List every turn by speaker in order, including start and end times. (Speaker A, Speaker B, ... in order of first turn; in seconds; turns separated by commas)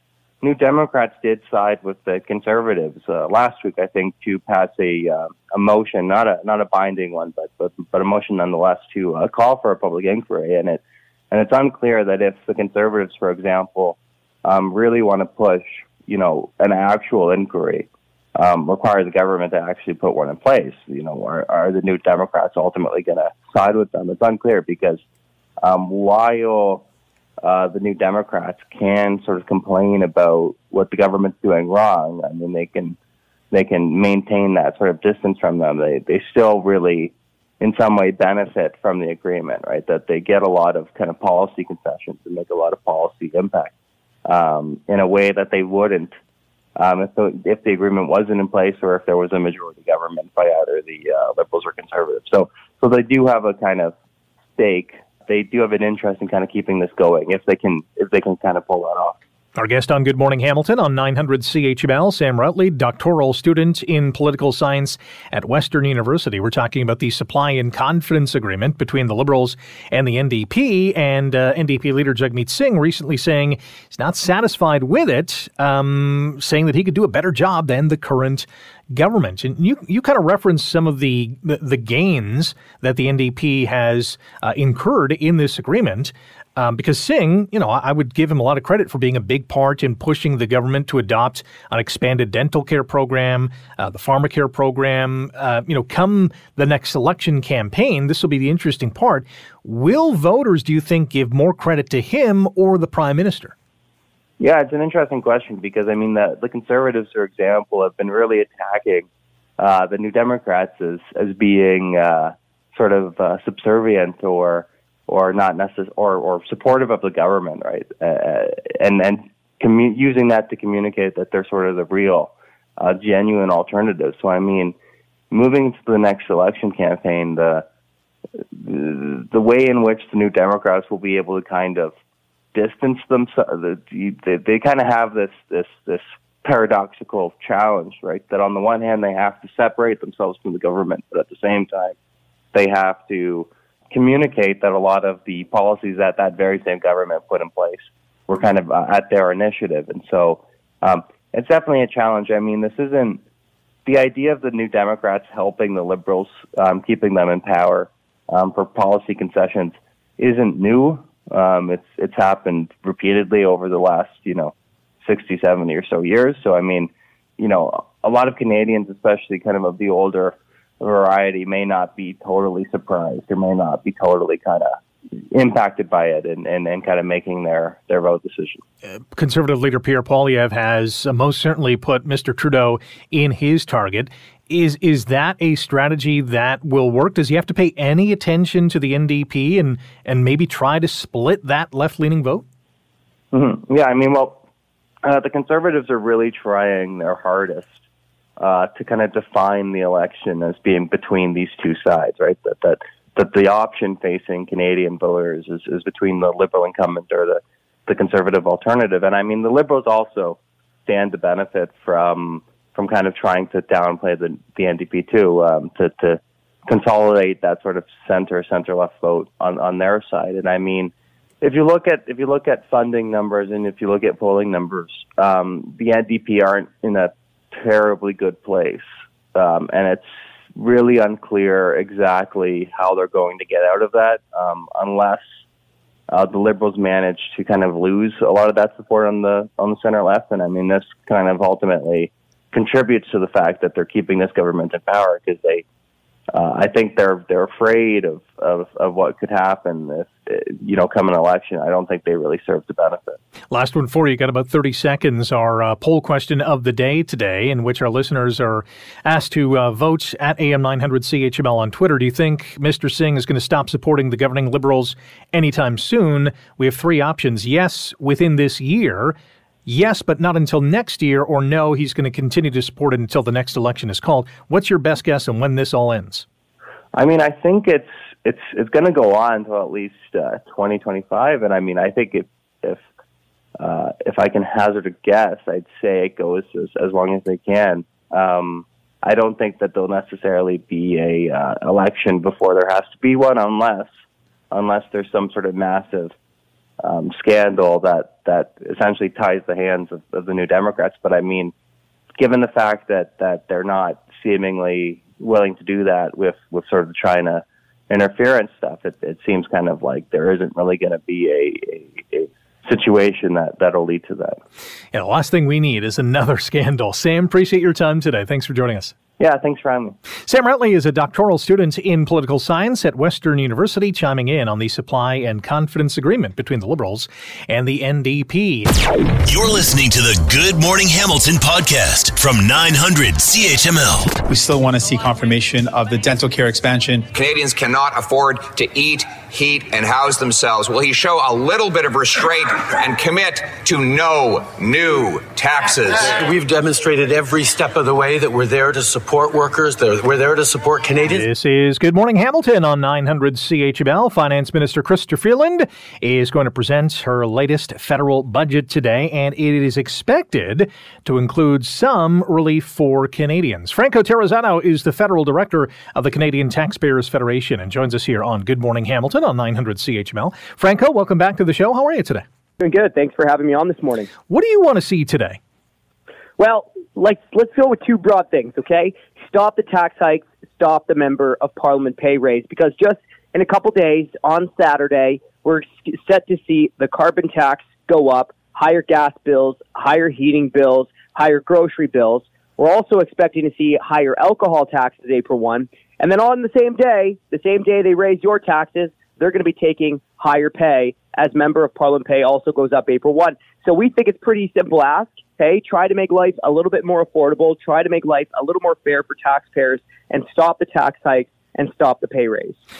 Speaker A: 0.4-25.0, Speaker A: 25.6-26.8, Speaker A: 27.4-33.0, Speaker A: 33.5-43.7, Speaker A: 44.2-46.1, Speaker A: 46.8-53.9, Speaker A: 54.6-59.1, Speaker B: 59.6-103.5, Speaker A: 104.4-109.1, Speaker A: 109.6-124.7, Speaker A: 125.3-127.7, Speaker A: 128.5-131.9, Speaker A: 132.5-141.9, Speaker A: 142.5-153.2, Speaker A: 153.8-174.8, Speaker A: 175.3-178.6, Speaker B: 178.9-192.4, Speaker A: 193.3-194.4, Speaker A: 195.0-197.7, Speaker A: 198.4-235.2, Speaker A: 236.1-245.6, Speaker A: 246.3-253.2, Speaker B: 253.5-276.2, Speaker A: 276.9-282.8, Speaker A: 283.6-293.9, Speaker A: 294.5-296.1, Speaker A: 296.8-301.5, Speaker A: 302.2-314.4, Speaker B: 314.9-318.9, Speaker A: 319.2-320.0, Speaker B: 320.2-328.7, Speaker C: 329.2-334.2, Speaker D: 334.3-337.1, Speaker E: 337.1-346.1, Speaker F: 346.0-351.3, Speaker B: 351.1-372.2, Speaker G: 372.6-374.1, Speaker B: 374.3-375.4, Speaker G: 376.4-412.6